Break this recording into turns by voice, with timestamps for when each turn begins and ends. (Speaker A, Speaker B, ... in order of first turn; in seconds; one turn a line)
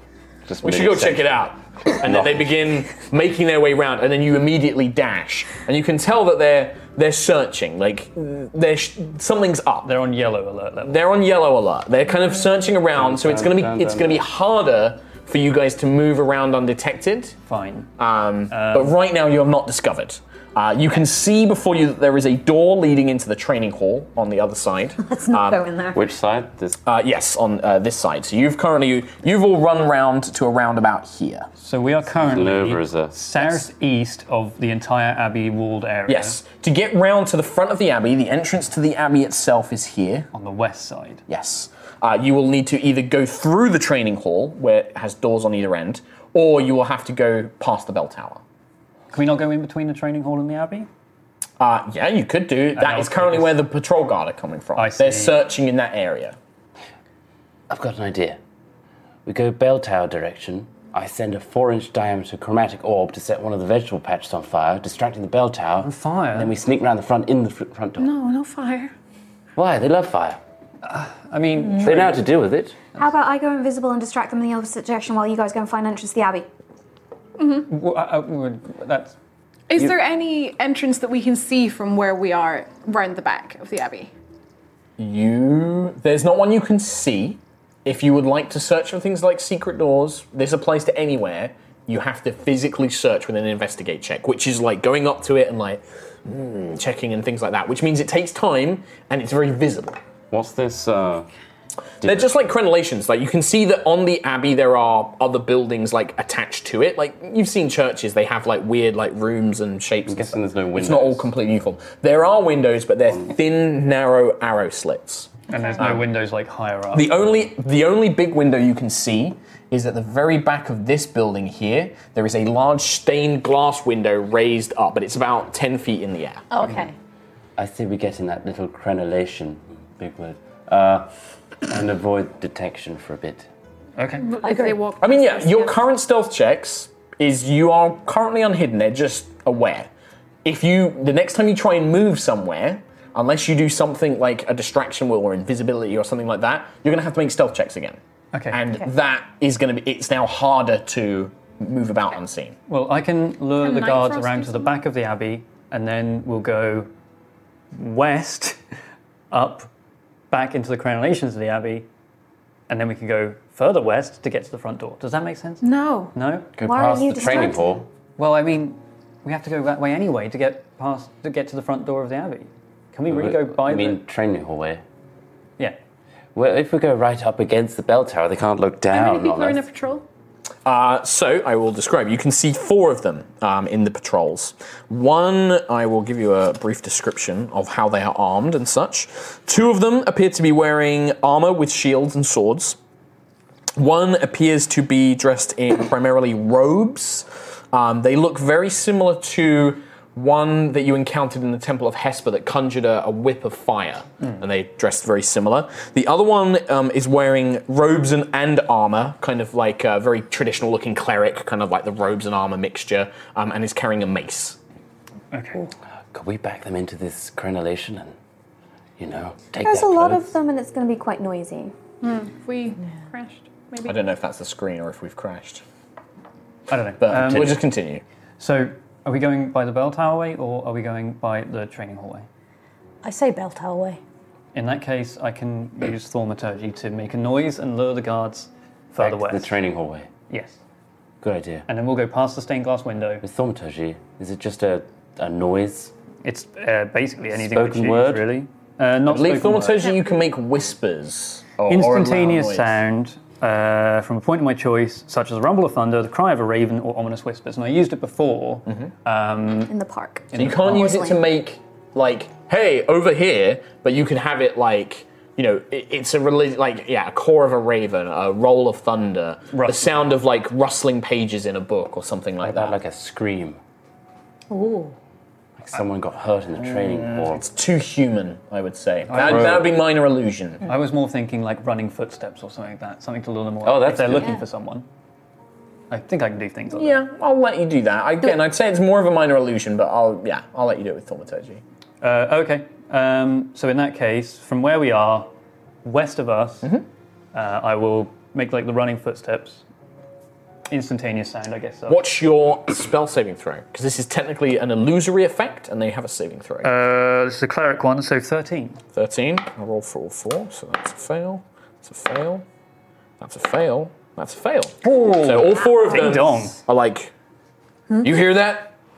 Speaker A: 0.5-2.4
Speaker B: 0.6-9.9
Speaker C: 9.8-11.0
Speaker B: 10.8-17.4
Speaker A: 13.0-14.2
Speaker C: 17.5-17.9
Speaker B: 18.0-25.6
Speaker C: 18.5-18.9
Speaker D: 25.0-26.1
Speaker A: 25.9-26.8
Speaker B: 26.9-31.5
Speaker C: 31.6-36.4
Speaker A: 32.2-33.1
Speaker B: 36.1-40.3
Speaker C: 40.3-41.2
Speaker B: 41.3-48.4
Speaker C: 49.1-50.9
Speaker B: 51.6-56.4
Speaker C: 52.8-53.6
Speaker C: 54.8-55.4
Speaker A: 57.7-58.4
Speaker A: 59.3-68.1
Speaker C: 65.8-66.5
Speaker E: 68.0-68.9
Speaker A: 69.5-70.4
Speaker C: 70.8-72.2
Speaker A: 71.8-72.8
Speaker D: 73.0-76.5
Speaker E: 77.4-77.7
Speaker C: 77.7-79.2
Speaker E: 79.7-84.1
Speaker B: 85.0-100.0
Speaker A: 100.3-101.3
Speaker B: 102.0-116.1
Speaker A: 110.1-111.3
Speaker C: 115.5-117.2
Speaker B: 116.9-126.4
Speaker F: 126.5-126.9
Speaker A: 127.6-131.1
Speaker A: 131.7-133.5
Speaker C: 134.0-134.3
Speaker E: 134.2-135.8
Speaker F: 134.4-134.9
Speaker B: 135.0-139.9
Speaker B: 140.4-152.6
Speaker C: 148.3-148.6
Speaker C: 152.7-156.9
Speaker E: 153.6-154.6
Speaker C: 157.7-158.6
Speaker C: 159.3-159.7
Speaker C: 160.3-161.9
Speaker C: 162.7-166.5
Speaker E: 165.6-166.2
Speaker A: 166.6-167.9
Speaker D: 166.6-167.8
Speaker C: 168.2-174.0
Speaker A: 173.1-174.8
Speaker A: 176.3-179.7
Speaker E: 178.9-180.1
Speaker B: 180.7-192.8
Speaker B: 193.8-214.6
Speaker C: 215.3-215.7
Speaker A: 216.1-218.1
Speaker A: 219.0-220.3
Speaker D: 219.6-221.7
Speaker E: 222.0-224.0
Speaker B: 223.8-225.6
Speaker C: 226.7-227.7
Speaker B: 227.0-228.0
Speaker C: 228.4-232.3
Speaker F: 233.0-234.0
Speaker C: 234.5-239.6
Speaker A: 239.0-240.1
Speaker C: 240.3-240.6
Speaker A: 241.2-241.7
Speaker C: 241.7-243.2
Speaker A: 243.2-245.9
Speaker C: 246.2-249.8
Speaker A: 247.3-248.4
Speaker B: 249.1-252.8
Speaker C: 251.7-259.7
Speaker D: 259.7-261.2
Speaker C: 260.3-260.9
Speaker B: 260.4-272.8
Speaker C: 269.5-269.9
Speaker A: 272.4-273.6
Speaker F: 274.5-274.9
Speaker A: 275.6-277.5
Speaker B: 277.1-280.6
Speaker C: 279.1-279.7
Speaker A: 279.2-279.7
Speaker C: 280.7-284.9
Speaker A: 283.6-284.4
Speaker C: 285.9-287.0
Speaker B: 286.7-291.6
Speaker C: 292.0-295.3
Speaker C: 295.9-296.8
Speaker C: 297.3-299.6
Speaker C: 300.7-302.0
Speaker B: 301.9-306.8
Speaker C: 306.6-308.8
Speaker B: 308.9-312.4
Speaker B: 313.2-317.1
Speaker C: 314.8-316.6
Speaker B: 318.0-318.8